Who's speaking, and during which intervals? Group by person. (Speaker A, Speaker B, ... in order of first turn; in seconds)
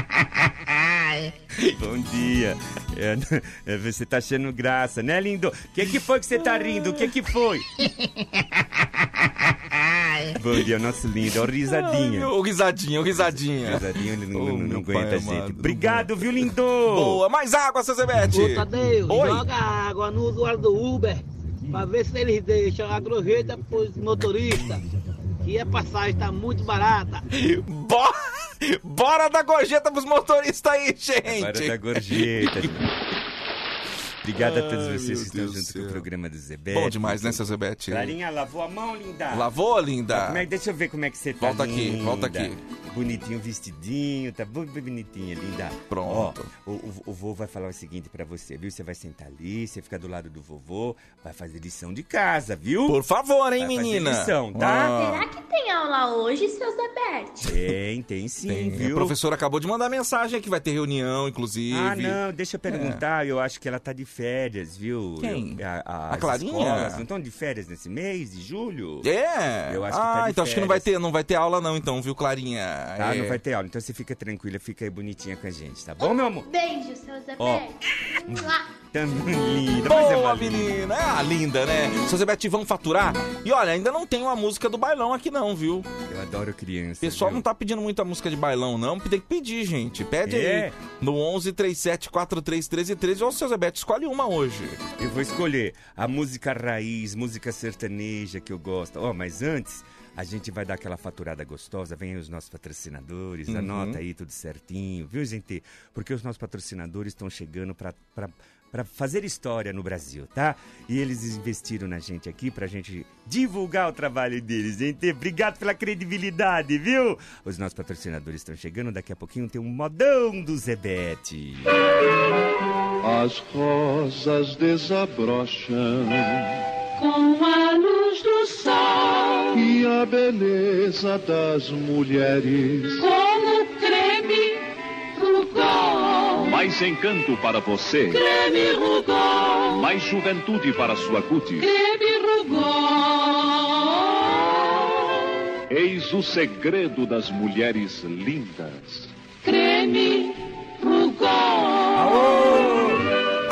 Speaker A: 1.6-7.7, 10.3-12.3, 13.2-17.2, 31.3-32.8, 34.2-39.5, 40.1-53.0, 53.6-54.9, 57.4-59.1, 61.7-69.1, 69.7-70.9, 73.0-76.5, 77.4-77.6, 78.3-80.7, 86.1-87.4, 90.2-90.7, 95.0-121.7, 151.9-153.1
Speaker B: 11.7-19.4, 27.3-32.7, 34.3-36.1, 36.7-38.1, 39.3-40.5, 41.4-42.6, 45.9-46.5, 52.9-55.2, 58.5-63.0, 65.2-67.0, 69.0-73.4, 79.8-85.9, 87.0-94.8, 103.5-104.0
Speaker C: 18.3-24.8, 25.4-27.2
Speaker D: 54.9-57.5, 76.0-77.8, 78.3-78.6
Speaker E: 123.0-126.5, 129.5-133.1
Speaker F: 127.3-128.2, 133.1-134.5, 135.4-136.5, 138.1-139.8, 141.6-142.9, 149.5-150.3, 151.0-151.7